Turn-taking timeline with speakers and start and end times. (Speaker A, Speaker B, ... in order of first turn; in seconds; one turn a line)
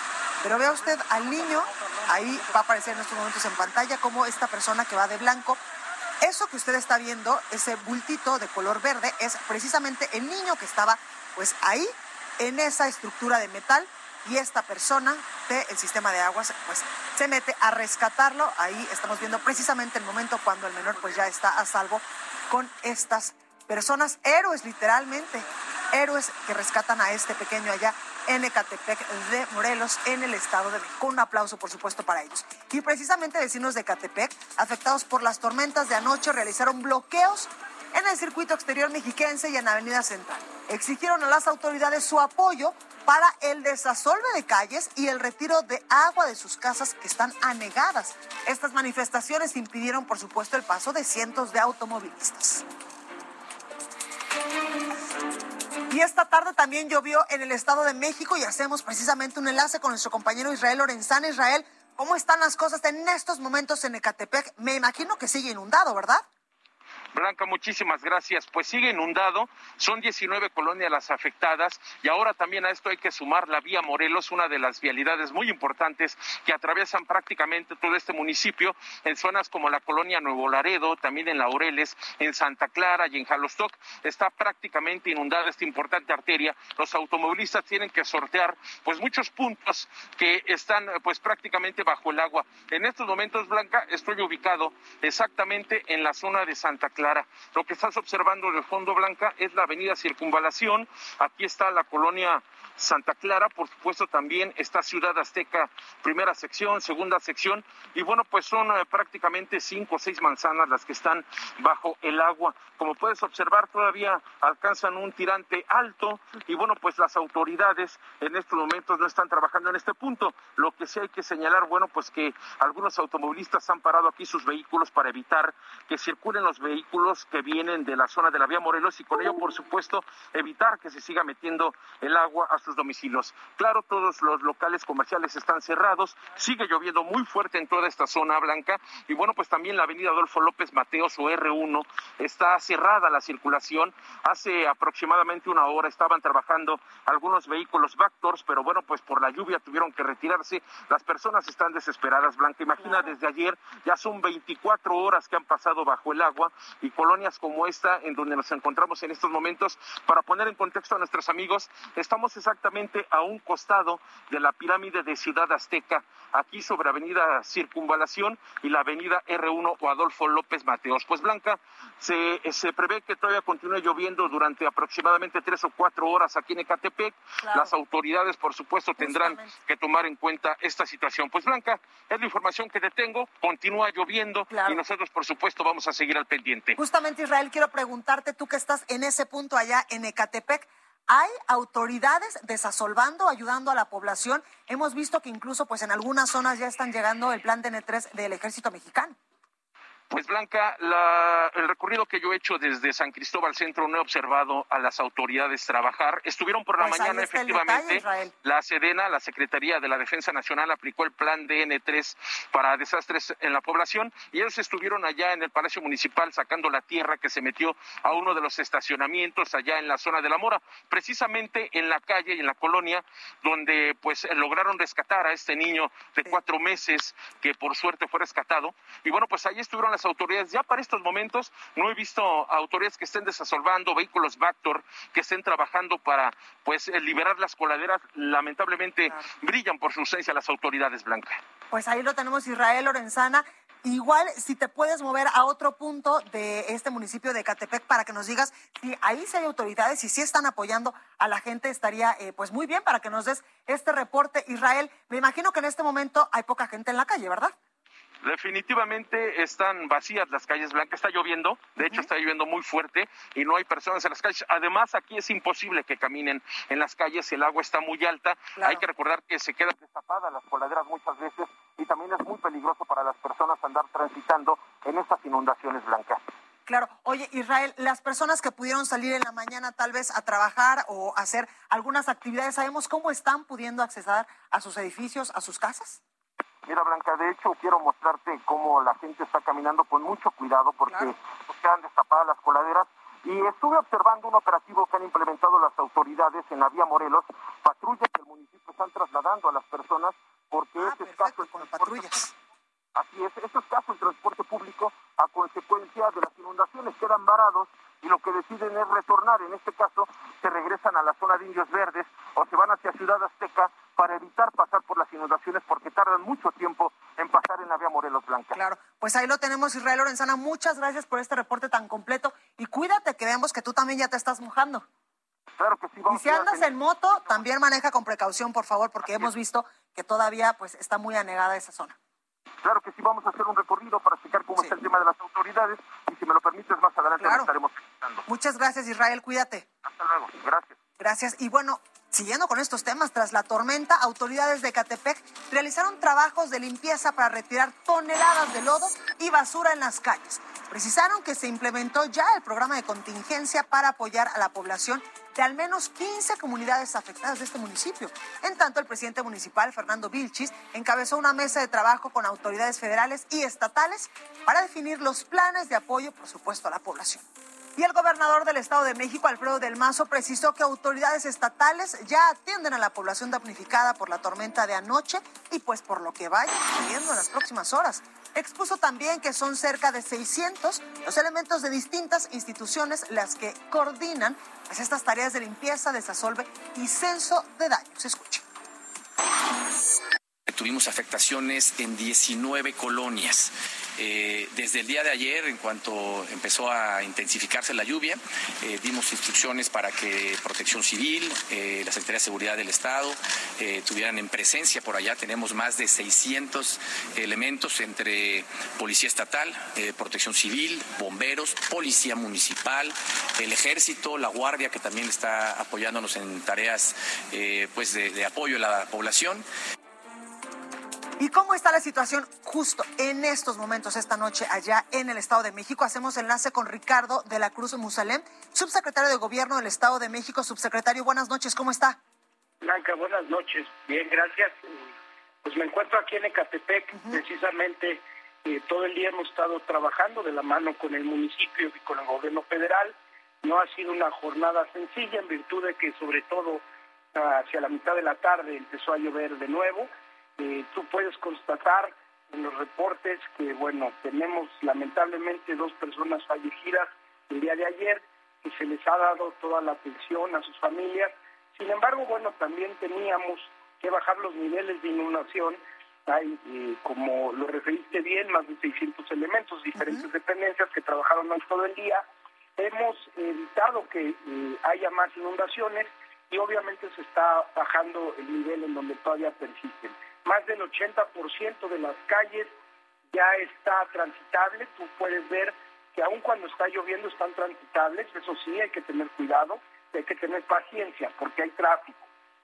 Speaker A: 0.4-5.6
Speaker A: 6.2-52.6
Speaker A: 55.9-66.2
Speaker B: 67.1-186.8
Speaker A: 152.8-153.1
Speaker A: 177.4-177.7
Speaker A: 179.0-179.5
Speaker A: 184.5-184.8
Speaker A: 186.8-199.2
Speaker B: 200.1-241.4
Speaker A: 206.8-208.3
Speaker A: 241.7-257.5
Speaker B: 258.2-276.2
Speaker A: 261.8-262.1
Speaker A: 268.6-268.8
Speaker A: 276.7-286.0
Speaker B: 286.6-302.2
Speaker A: 300.8-302.3
Speaker B: 302.9-318.6
Speaker A: 318.5-324.9
Speaker B: 325.6-326.7
Speaker A: 326.1-331.9
Speaker B: 332.6-338.2
Speaker A: 337.2-337.5
Speaker A: 338.3-339.7
Speaker B: 339.8-340.8
Speaker A: 341.0-367.2
Speaker A: 367.8-388.4
Speaker C: 390.5-419.4
Speaker A: 421.2-432.0
Speaker D: 432.6-434.9
Speaker D: 435.4-446.6
Speaker D: 447.1-472.0
Speaker D: 472.6-482.5
Speaker D: 483.1-492.1